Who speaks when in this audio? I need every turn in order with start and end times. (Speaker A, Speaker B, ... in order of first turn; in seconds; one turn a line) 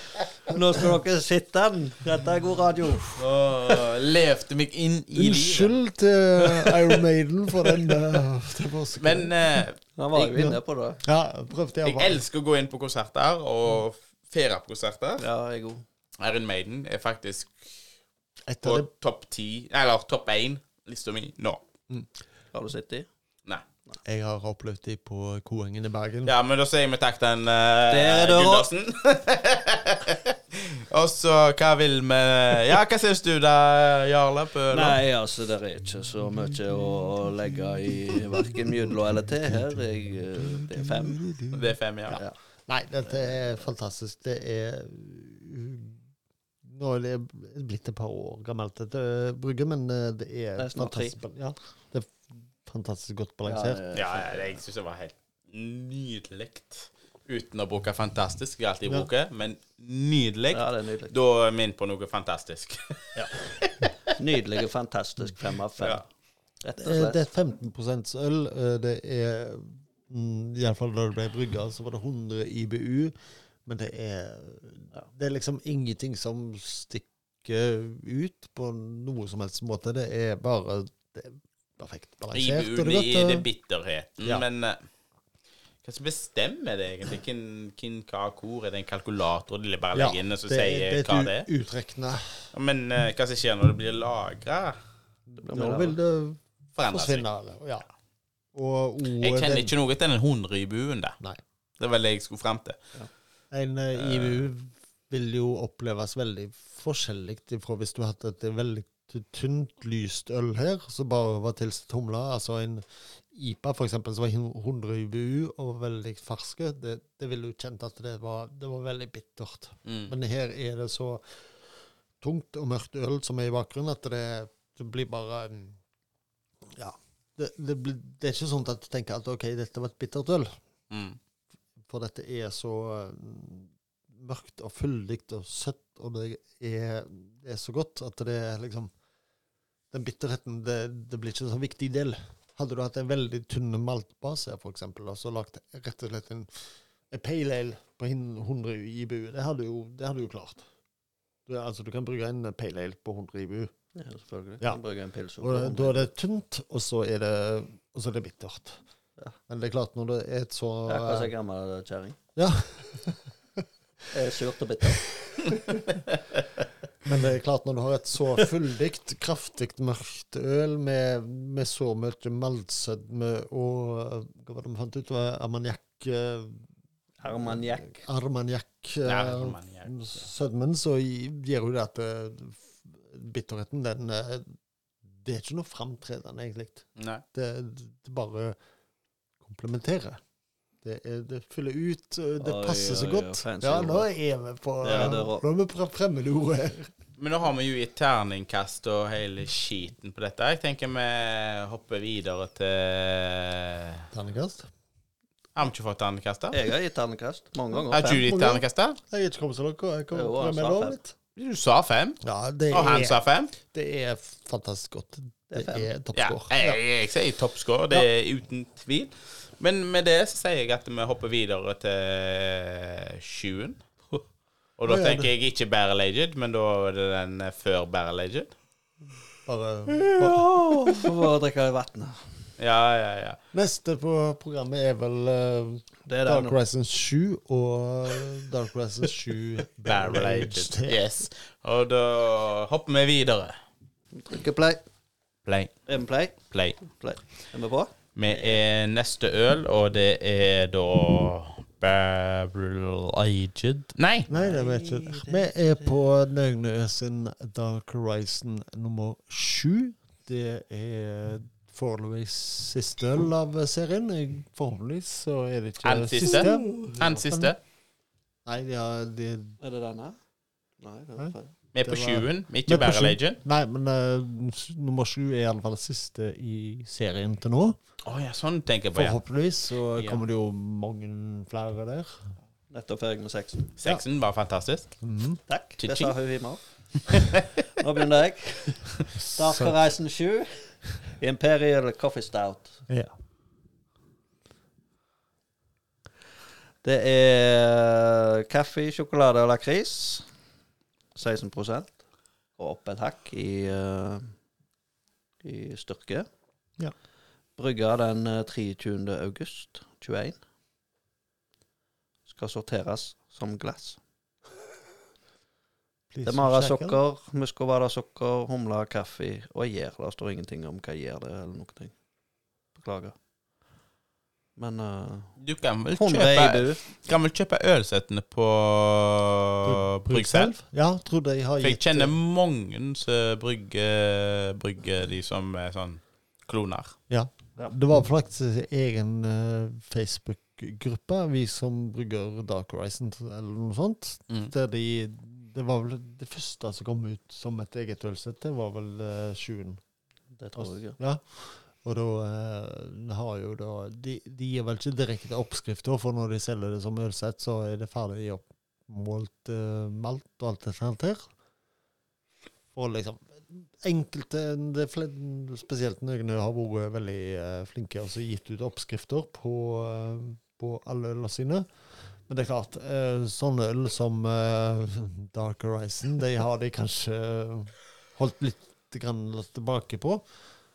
Speaker A: 0.5-3.1
Speaker B: 3.1-5.8
Speaker C: 5.1-12.2
Speaker B: 6.4-7.0
Speaker B: 9.0-9.8
Speaker A: 9.9-11.0
Speaker B: 11.8-15.2
Speaker A: 15.2-15.8
Speaker B: 16.2-17.8
Speaker C: 18.5-18.9
Speaker B: 18.6-21.6
Speaker A: 22.5-23.1
Speaker C: 24.0-26.3
Speaker B: 26.2-35.0
Speaker A: 27.9-28.7
Speaker A: 34.7-41.3
Speaker C: 40.4-46.0
Speaker B: 41.5-42.2
Speaker C: 46.6-53.8
Speaker A: 50.6-51.1
Speaker A: 53.5-54.6
Speaker B: 53.9-63.9
Speaker A: 60.5-61.1
Speaker A: 64.1-66.0
Speaker A: 66.6-67.2
Speaker C: 66.8-73.1
Speaker C: 73.6-83.5
Speaker B: 82.3-84.8
Speaker B: 85.8-91.5
Speaker C: 89.9-92.5
Speaker B: 92.5-94.8
Speaker C: 95.3-97.8
Speaker A: 95.4-96.0
Speaker B: 96.8-97.2
Speaker C: 98.5-99.7
Speaker B: 99.2-101.2
Speaker B: 101.8-102.8
Speaker C: 103.5-121.4
Speaker B: 103.9-104.4
Speaker B: 119.8-120.1
Speaker C: 122.2-125.8
Speaker C: 126.7-130.5
Speaker B: 130.9-131.2
Speaker C: 131.8-138.9
Speaker C: 139.9-150.7
Speaker C: 151.4-153.7
Speaker A: 153.9-156.1
Speaker C: 155.4-158.8
Speaker C: 159.5-161.3
Speaker A: 160.8-162.2
Speaker C: 162.3-163.3
Speaker A: 164.1-165.0
Speaker C: 165.2-165.8
Speaker C: 167.0-176.6
Speaker A: 177.2-178.0
Speaker C: 177.4-184.5
Speaker B: 179.0-180.1
Speaker C: 185.1-188.6
Speaker B: 187.0-187.2
Speaker C: 189.4-190.2
Speaker C: 190.8-196.9
Speaker A: 192.4-194.1
Speaker A: 194.8-195.4
Speaker B: 197.2-204.1
Speaker C: 204.1-204.7
Speaker B: 205.6-206.6
Speaker A: 206.5-208.2
Speaker B: 207.9-209.0
Speaker C: 208.1-211.1
Speaker A: 210.1-211.0
Speaker B: 211.3-213.5
Speaker C: 212.2-216.8
Speaker A: 215.5-215.9
Speaker B: 216.1-223.8
Speaker B: 224.8-228.5
Speaker C: 224.9-225.3
Speaker C: 229.4-231.1
Speaker A: 230.2-232.3
Speaker B: 232.6-233.4
Speaker C: 233.5-241.0
Speaker A: 236.1-236.6
Speaker B: 239.8-243.6
Speaker A: 244.1-244.8
Speaker B: 245.4-245.7
Speaker A: 245.9-248.6
Speaker B: 246.5-246.8
Speaker B: 248.2-254.3
Speaker C: 254.3-267.5
Speaker A: 254.3-255.9
Speaker B: 265.8-267.6
Speaker C: 268.4-269.6
Speaker A: 269.6-270.2
Speaker A: 270.8-271.5
Speaker C: 271.2-277.8
Speaker B: 271.7-273.4
Speaker B: 278.0-279.2
Speaker C: 278.9-282.3
Speaker B: 279.9-280.2
Speaker A: 282.7-283.7
Speaker B: 283.8-284.9
Speaker C: 285.0-285.4
Speaker A: 285.5-292.8
Speaker B: 285.8-286.1
Speaker B: 287.1-287.4
Speaker C: 289.1-289.7
Speaker A: 296.8-300.3
Speaker A: 301.1-302.0
Speaker A: 302.6-304.3
Speaker A: 305.4-306.3
Speaker A: 307.6-310.4
Speaker A: 312.3-314.0
Speaker C: 316.1-317.0
Speaker A: 316.2-321.9
Speaker A: 322.7-323.1
Speaker A: 324.6-325.4
Speaker B: 325.4-330.5
Speaker A: 325.9-326.8
Speaker C: 329.6-332.1
Speaker B: 331.6-336.9
Speaker C: 337.1-349.8
Speaker A: 350.4-351.0
Speaker C: 350.6-361.3
Speaker C: 362.7-371.7
Speaker C: 372.3-380.2